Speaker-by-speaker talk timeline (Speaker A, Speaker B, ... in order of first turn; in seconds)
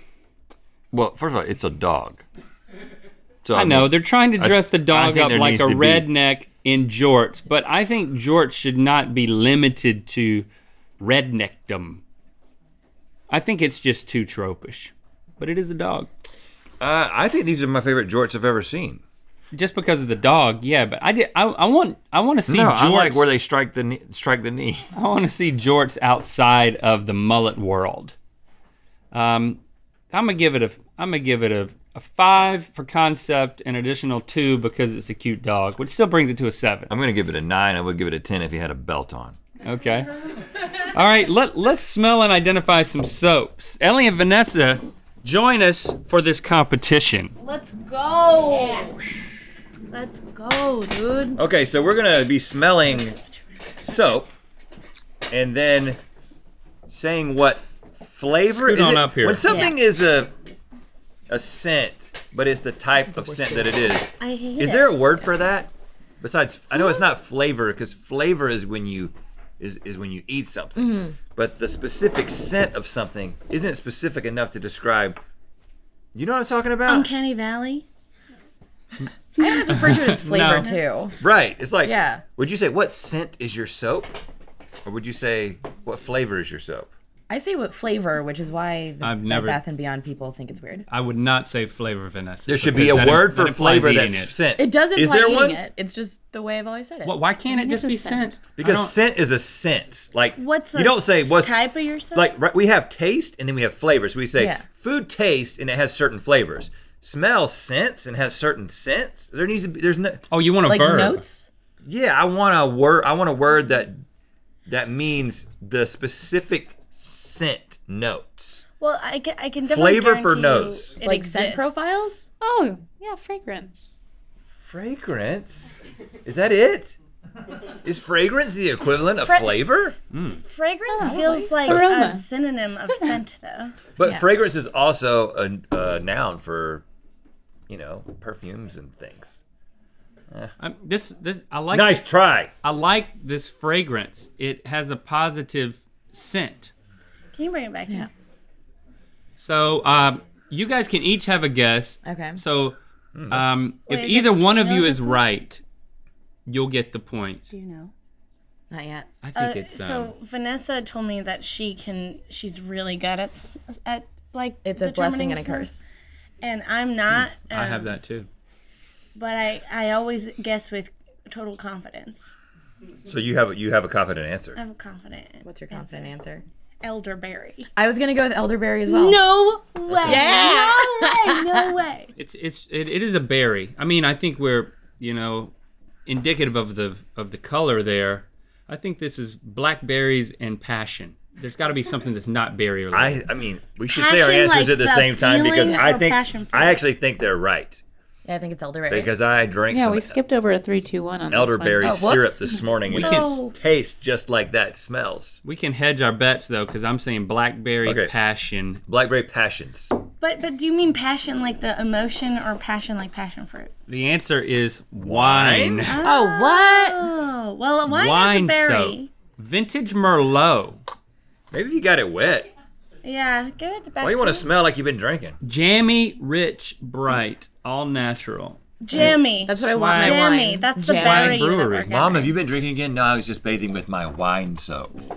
Speaker A: 0.9-2.2, 3.4-6.0, 16.8-19.0, 22.4-24.8, 36.9-39.4, 51.4-53.1, 53.8-54.3, 55.3-56.0, 56.9-60.3, 61.3-75.2, 76.1-77.1, 81.2-84.2, 84.8-86.9, 92.5-95.6, 98.5-110.2, 111.8-114.0, 114.7-118.6, 119.6-121.0, 124.6-127.0, 127.8-129.9, 133.9-136.8, 137.7-139.4, 141.7-142.5, 153.1-153.5, 173.0-174.6, 192.9-197.8, 198.9-200.2, 201.3-205.4, 207.8-208.1, 208.9-209.9, 215.0-215.9, 221.5-222.5, 224.0-225.4, 231.8-235.0
Speaker B: 3.5-10.5, 11.0-12.0, 13.3-16.1, 19.5-23.3, 24.9-28.1, 29.1-36.9, 39.6-40.1, 40.9-47.3, 58.5-59.4, 80.1-80.7, 89.0-89.6, 90.9-94.3, 97.0-98.9, 110.3-111.2, 130.1-130.4, 140.6-142.0, 142.6-146.7, 149.4-152.8, 153.3-155.6, 156.5-157.4, 159.2-160.1, 167.1-168.3, 182.2-185.5, 186.1-193.2, 202.9-203.4, 205.4-208.8, 213.9-216.0, 217.9-220.8, 225.4-228.6, 229.7-230.2, 230.9-231.9
Speaker C: 47.4-49.0, 49.9-51.4, 52.9-53.2, 64.2-64.9, 76.9-77.8, 79.3-79.9, 100.3-102.3, 118.8-122.2, 129.2-129.6, 130.4-133.8, 147.3-148.1, 153.8-155.3, 157.5-157.9, 159.3-165.7, 166.4-167.9, 169.1-172.3, 174.6-176.1, 176.8-177.7, 178.9-182.1, 193.9-196.8, 203.0-203.5, 210.2-213.7, 215.9-219.1, 223.0-224.5, 228.8-232.3
Speaker D: 59.4-59.7, 63.0-63.9, 70.8-71.2, 79.4-81.2, 81.8-82.2, 87.3-90.8, 94.6-97.2, 104.3-104.6, 110.7-111.5, 121.0-122.3, 152.0-152.4, 158.7-159.1, 164.6-165.8, 175.4-176.4, 177.8-179.2, 180.0-181.6, 198.2-199.1, 201.8-202.4, 216.0-217.1, 228.9-231.5
Speaker E: 97.4-98.4, 122.4-124.0, 130.9-132.2, 132.9-133.2, 199.7-202.2